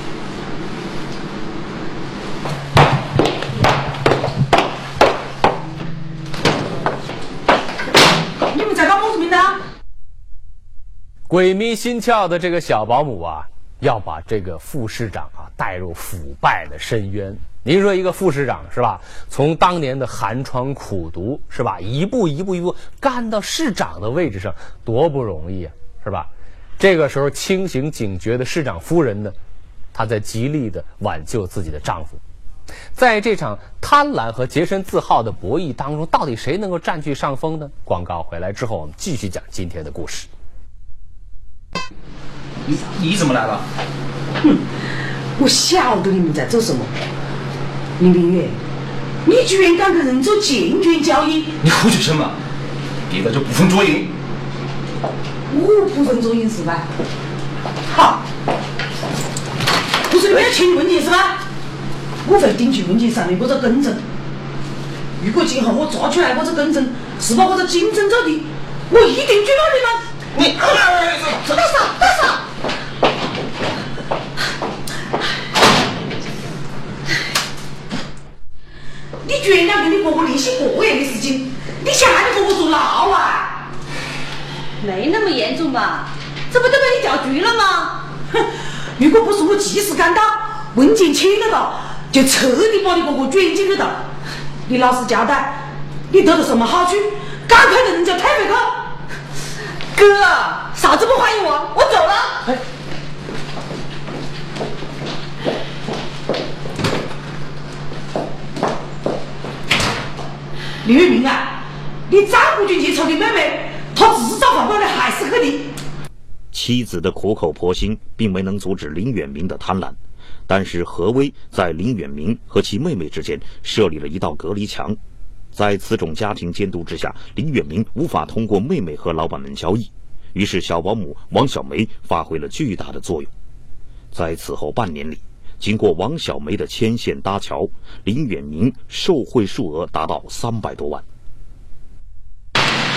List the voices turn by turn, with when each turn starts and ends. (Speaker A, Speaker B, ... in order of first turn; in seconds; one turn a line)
Speaker A: 8.5-9.6
Speaker B: 11.3-29.4
Speaker B: 29.9-32.2
Speaker B: 33.0-40.3
Speaker C: 42.6-43.6
Speaker A: 44.4-44.7
Speaker A: 45.4-46.9
Speaker A: 48.0-48.6
Speaker A: 49.2-51.5
Speaker C: 51.6-52.4
Speaker C: 53.1-54.1
Speaker A: 55.5-56.9
Speaker A: 57.9-58.2
Speaker A: 60.1-61.4
Speaker A: 62.2-64.0
Speaker A: 65.2-70.0
Speaker C: 70.4-71.3
Speaker A: 71.8-72.1
Speaker A: 79.2-83.6
Speaker D: 84.8-88.0
Speaker A: 89.0-94.0
Speaker A: 94.7-95.6
Speaker A: 96.1-98.8
Speaker A: 100.0-101.8
Speaker D: 101.8-102.4
Speaker A: 110.8-115.7
Speaker E: 116.5-120.0
Speaker E: 120.5-125.0
Speaker E: 125.5-133.3
Speaker E: 134.1-141.0